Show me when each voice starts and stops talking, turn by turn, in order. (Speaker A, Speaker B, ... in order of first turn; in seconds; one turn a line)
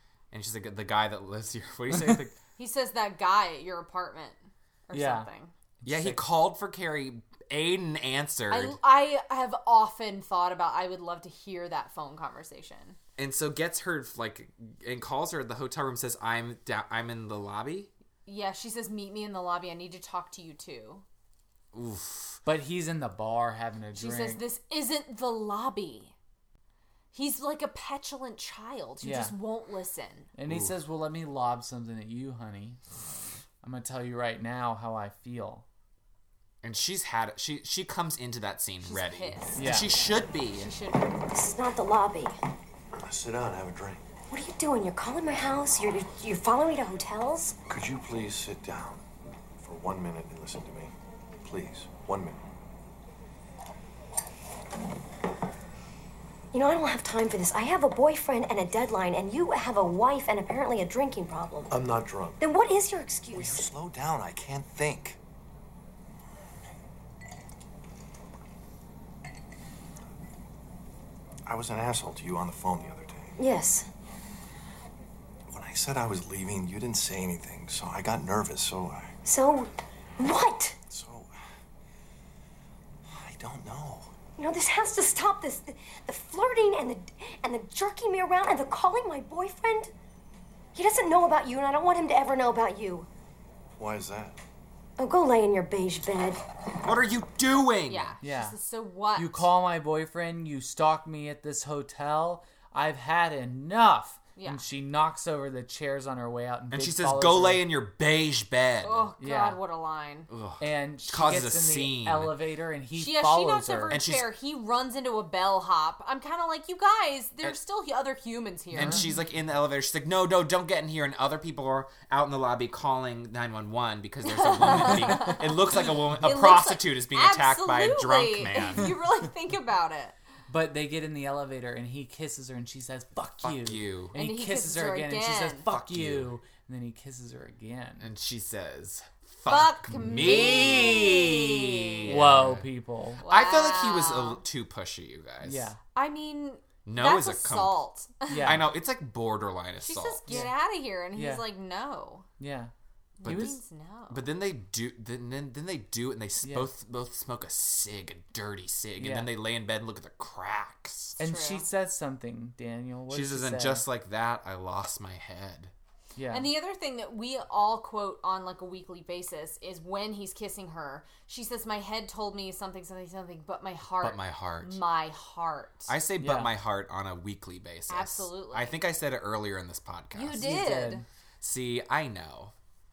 Speaker A: 0.3-2.4
Speaker B: 2.6-5.5
Speaker C: 4.9-5.3
Speaker C: 5.8-6.2
Speaker A: 5.8-8.8
Speaker B: 8.5-13.0
Speaker A: 13.2-17.9
Speaker B: 18.2-21.0
Speaker A: 21.7-22.4
Speaker C: 22.4-24.4
Speaker B: 23.9-26.1
Speaker B: 27.1-30.3
Speaker C: 29.0-29.3
Speaker C: 30.4-32.8
Speaker A: 30.5-30.7
Speaker C: 33.6-35.6
Speaker A: 36.6-40.7
Speaker B: 38.8-41.2
Speaker C: 39.5-39.9
Speaker D: 41.3-42.3
Speaker E: 42.9-44.0
Speaker D: 44.3-47.5
Speaker E: 47.7-49.0
Speaker E: 49.6-52.4
Speaker D: 56.5-61.7
Speaker E: 61.7-62.4
Speaker D: 62.4-63.7
Speaker E: 63.3-65.2
Speaker E: 71.5-73.4
Speaker D: 73.4-73.9
Speaker E: 75.5-79.2
Speaker D: 79.2-80.8
Speaker E: 80.9-81.3
Speaker E: 83.0-84.1
Speaker D: 84.4-89.9
Speaker D: 90.7-93.1
Speaker E: 93.8-94.4
Speaker D: 95.0-96.4
Speaker A: 96.8-98.1
Speaker B: 97.9-99.5
Speaker C: 98.2-98.5
Speaker C: 99.2-107.7
Speaker B: 104.4-104.6
Speaker A: 106.7-109.1
Speaker B: 108.8-110.3
Speaker C: 109.2-109.6
Speaker A: 110.3-112.4
Speaker C: 110.6-114.0
Speaker B: 112.9-119.1
Speaker A: 113.9-114.3
Speaker A: 118.7-128.9
Speaker C: 118.8-119.0
Speaker B: 124.2-130.2
Speaker C: 130.5-138.1
Speaker A: 133.4-134.1
Speaker B: 134.1-135.7
Speaker A: 135.7-136.3
Speaker A: 138.0-142.7
Speaker B: 139.5-142.1
Speaker C: 142.0-143.2
Speaker B: 143.2-144.4
Speaker A: 143.2-145.7
Speaker C: 145.4-145.8
Speaker B: 145.9-148.5
Speaker A: 146.8-147.8
Speaker C: 148.3-148.7
Speaker A: 148.4-150.4
Speaker B: 149.8-152.3
Speaker C: 150.3-150.5
Speaker C: 151.1-151.4
Speaker C: 152.4-152.7
Speaker B: 153.2-154.2
Speaker A: 153.2-153.5
Speaker C: 153.2-153.6
Speaker A: 154.1-161.2
Speaker C: 156.4-156.7
Speaker C: 159.0-159.3
Speaker C: 161.2-163.8
Speaker B: 161.2-161.7
Speaker A: 163.1-165.7
Speaker C: 166.2-166.5
Speaker B: 166.3-175.9
Speaker A: 174.0-174.8
Speaker A: 175.9-180.6
Speaker C: 176.2-176.5
Speaker B: 177.9-178.8
Speaker B: 180.1-181.0
Speaker C: 180.4-181.0
Speaker A: 181.4-182.5